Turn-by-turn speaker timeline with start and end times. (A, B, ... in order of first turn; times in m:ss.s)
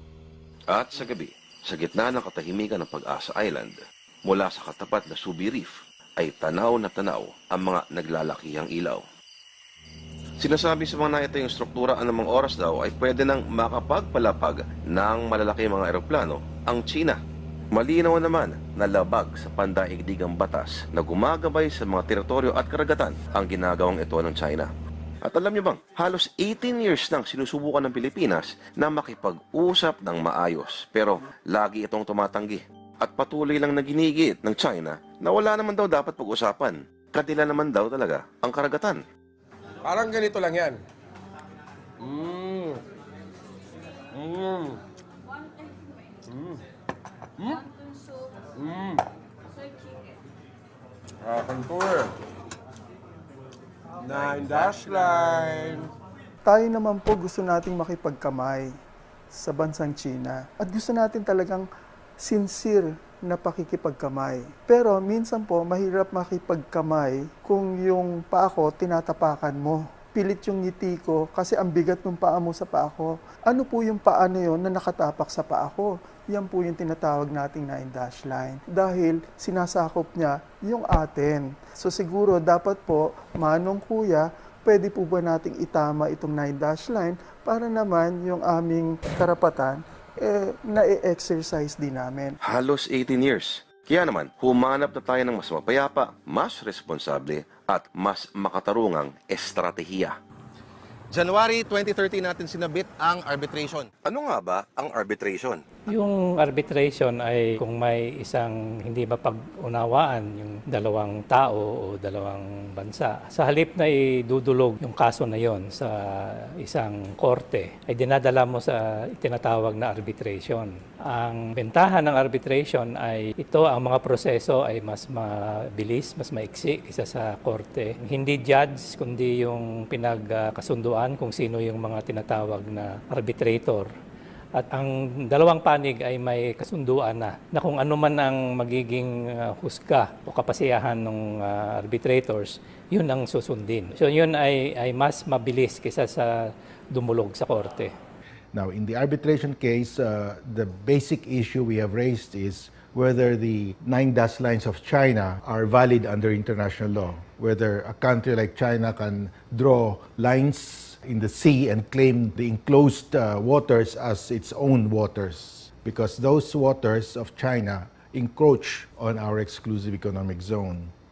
0:00.7-0:09.0 A
0:10.4-0:17.2 A
0:17.8-0:24.7 A
0:25.2-0:39.0 A
0:39.8-0:40.8 B
0:42.0-0:42.8 B
0:44.2-0:44.8 B
0:48.6-0:48.9 B
0:51.3-0:52.1 B
0:54.0-0:55.8 B
0:56.4-0:58.7 C
0:59.3-1:01.6 C
1:02.2-1:32.4 C
1:32.4-1:40.1 A
1:41.1-1:43.9 D
1:44.0-1:45.6 A
1:45.9-2:13.9 E
2:14.6-2:27.9 E
2:28.5-2:50.9 F